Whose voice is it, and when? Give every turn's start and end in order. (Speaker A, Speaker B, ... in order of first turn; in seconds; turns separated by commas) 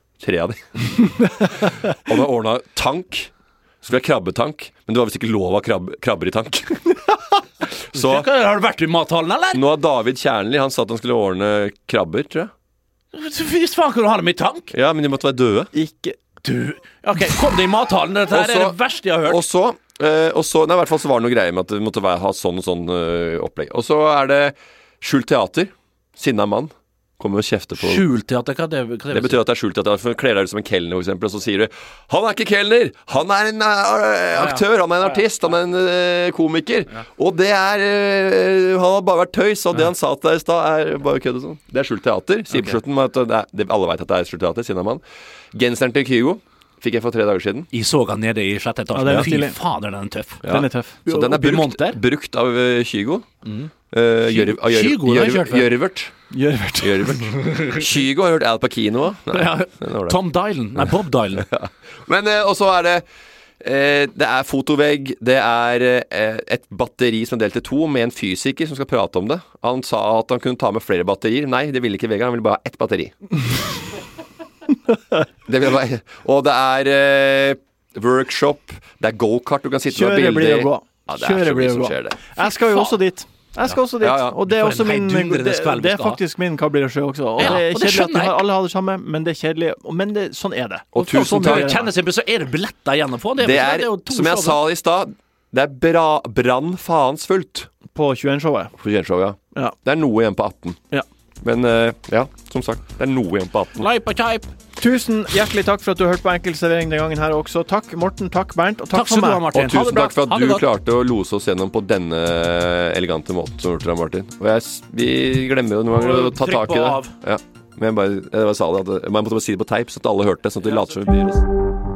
Speaker A: 0.2-7.2, Speaker A: 7.9-8.3, Speaker B: 7.9-9.6, Speaker A: 9.5-12.5, Speaker B: 13.1-14.7, Speaker A: 14.7-15.7, Speaker C: 15.7-16.2, Speaker B: 16.4-19.4, Speaker A: 18.3-28.0, Speaker B: 27.8-29.4, Speaker A: 29.1-47.7, Speaker B: 34.3-35.2, Speaker B: 42.5-42.8, Speaker B: 47.7-52.0, Speaker C: 48.9-49.6, Speaker A: 50.4-53.3, Speaker C: 50.5-51.0, Speaker B: 53.4-53.7, Speaker A: 53.9-60.2, Speaker B: 54.2-55.7, Speaker C: 56.3-57.3, Speaker B: 57.5-57.8, Speaker B: 59.3-61.5, Speaker A: 60.8-63.0, Speaker A: 63.6-73.3, Speaker A: 75.5-82.2, Speaker C: 79.9-91.9, Speaker B: 82.4-83.0, Speaker A: 84.0-84.3, Speaker B: 84.3-86.2, Speaker B: 87.4-88.4, Speaker A: 90.9-91.7, Speaker B: 90.9-94.6, Speaker A: 93.4-97.7, Speaker C: 97.9-98.8, Speaker A: 98.8-100.8, Speaker A: 101.4-103.9, Speaker B: 103.8-104.5, Speaker C: 104.8-109.5, Speaker B: 108.9-110.6, Speaker A: 109.5-121.4, Speaker B: 115.9-117.1